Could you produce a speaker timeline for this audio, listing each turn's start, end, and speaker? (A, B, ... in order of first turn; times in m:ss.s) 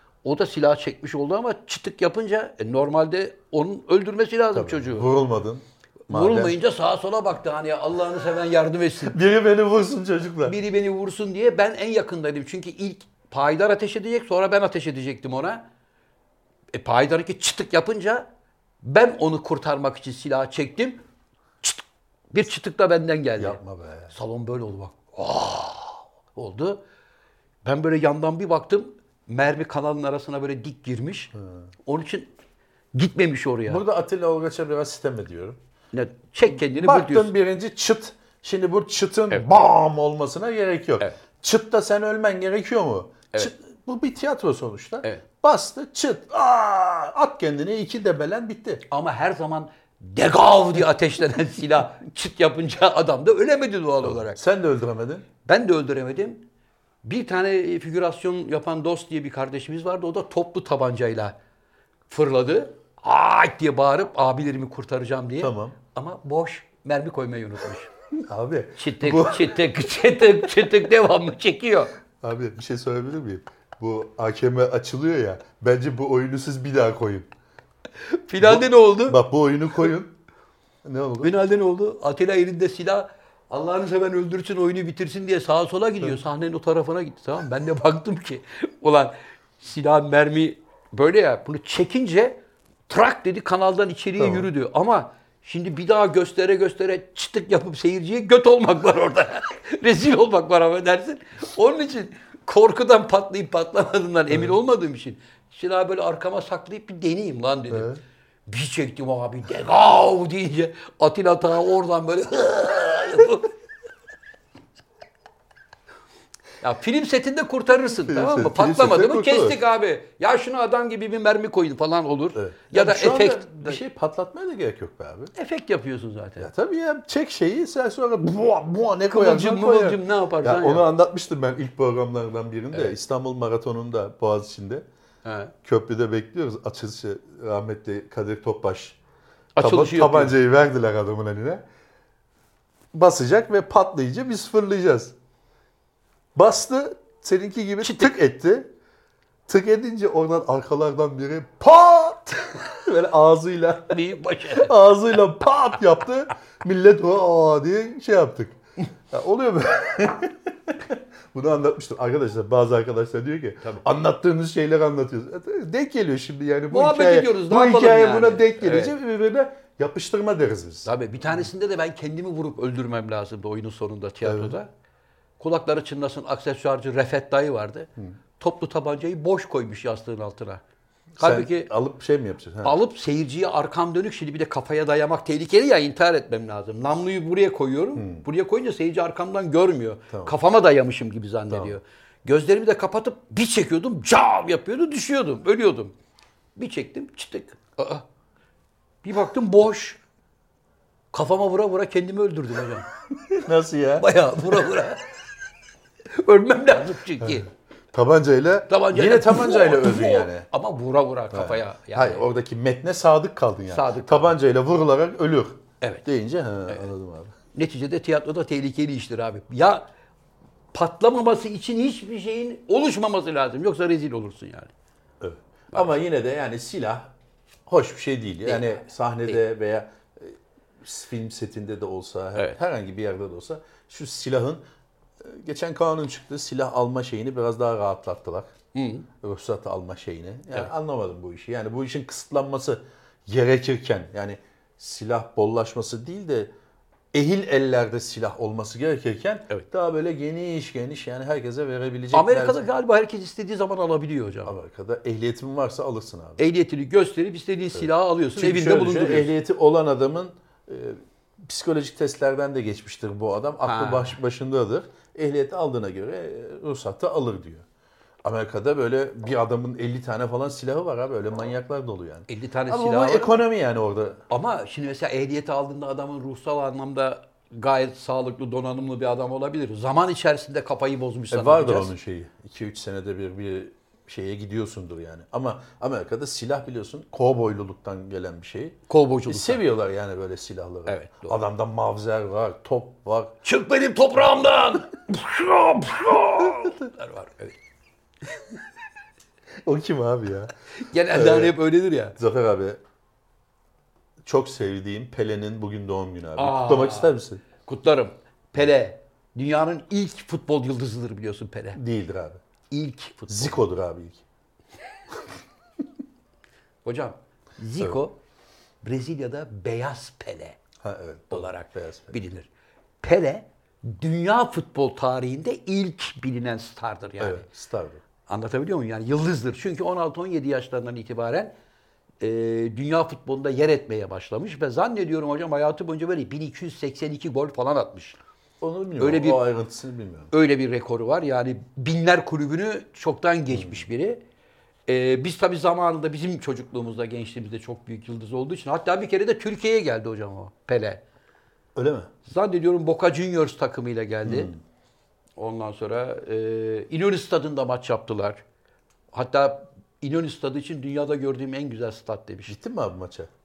0:00.2-0:05.1 A
0:04.5-0:06.6 B
0:06.1-0:09.2 A
0:09.0-0:10.6 B
0:10.4-0:15.6 A
0:16.7-0:18.2 A
0:18.8-0:21.0 A
0:21.6-0:23.6 A
0:23.4-0:24.1 B
0:24.1-0:26.8 A
0:27.6-0:31.3 A
0:31.8-0:32.3 A
0:32.9-0:33.8 A
0:33.7-0:35.6 B
0:35.9-0:37.3 A
0:36.5-0:48.8 B
0:48.9-0:54.4 A
0:54.0-0:55.2 B
0:55.4-0:56.4 A
0:57.0-1:01.4 A
1:02.1-1:07.9 A
1:05.4-1:05.8 B
1:08.2-1:09.7 B
1:08.8-1:11.9 A
1:12.2-1:17.3 B
1:18.1-1:19.2 A
1:18.4-1:20.1 B
1:20.8-1:21.3 B
1:21.2-1:32.4 A
1:32.9-1:47.9 A
1:34.2-1:34.5 B
1:44.3-1:44.6 B
1:47.7-1:48.0 B
1:48.5-1:53.5 A
1:56.6-2:03.8 A
1:58.0-1:59.6 B
2:02.3-2:05.3 B
2:05.3-2:06.5 A
2:06.4-2:14.8 B
2:09.1-2:10.8 A
2:15.2-2:15.5 A
2:15.6-2:19.0 B
2:19.6-2:20.3 A
2:19.6-2:21.6 B
2:22.9-2:25.1 B
2:26.3-2:28.7 B
2:27.8-2:28.1 A
2:29.5-2:34.0 B
2:33.9-2:34.7 A
2:34.5-2:38.6 B
2:39.1-2:51.5 B
2:46.7-2:48.9 A
2:50.8-2:54.7 A
2:54.2-2:54.6 B
2:55.4-3:00.6 A
3:01.2-3:02.8 B
3:01.2-3:01.7 A
3:02.6-3:15.9 A
3:08.0-3:08.2 B
3:10.1-3:10.3 B
3:11.5-3:11.8 B
3:16.6-3:18.0 A
3:19.0-3:20.0 A
3:21.1-3:22.9 A
3:23.3-3:24.7 B
3:24.0-3:25.0 A
3:26.1-3:27.5 A
3:27.9-3:30.4 B
3:28.7-3:32.3 A
3:31.3-3:37.3 B
3:33.7-3:34.3 A
3:37.5-3:39.8 A
3:40.7-3:44.7 A
3:45.2-3:47.1 B
3:47.7-3:54.6 B
3:48.4-3:49.4 A
3:55.2-3:58.5 B
3:58.7-3:59.1 A
3:59.2-4:06.5 B
4:07.1-4:12.6 B
4:12.1-4:14.5 A
4:14.4-4:16.4 B
4:16.4-4:19.3 A
4:17.7-4:27.6 B
4:23.6-4:24.2 A
4:28.2-4:34.2 B
4:32.3-4:33.4 A
4:34.3-4:41.9 A
4:41.3-4:53.3 B
4:48.9-4:49.6 A
4:50.8-4:51.4 A
4:53.4-4:57.6 A
4:56.4-4:56.7 B
4:59.6-5:00.5 B
5:00.8-5:02.2 A
5:01.1-5:01.5 B
5:02.2-5:02.8 B
5:04.2-5:07.4 B
5:06.4-5:11.8 A
5:11.7-5:12.4 B
5:12.7-5:13.6 A
5:13.3-5:14.2 B
5:16.8-5:18.2 A
5:18.8-5:20.6 A
5:20.8-5:22.2 B
5:21.3-5:22.5 A
5:23.0-5:27.4 A
5:27.2-5:28.0 B
5:28.2-5:31.5 A
5:32.2-5:38.2 A
5:38.6-5:40.3 B
5:39.0-5:39.4 A
5:40.3-5:44.2 A
5:43.5-5:43.9 B
5:44.9-5:51.0 A
5:51.8-5:52.1 B
5:52.2-5:54.5 A
5:54.2-5:54.6 B
5:55.4-5:58.4 A
5:59.1-6:02.6 A
6:02.5-6:03.3 B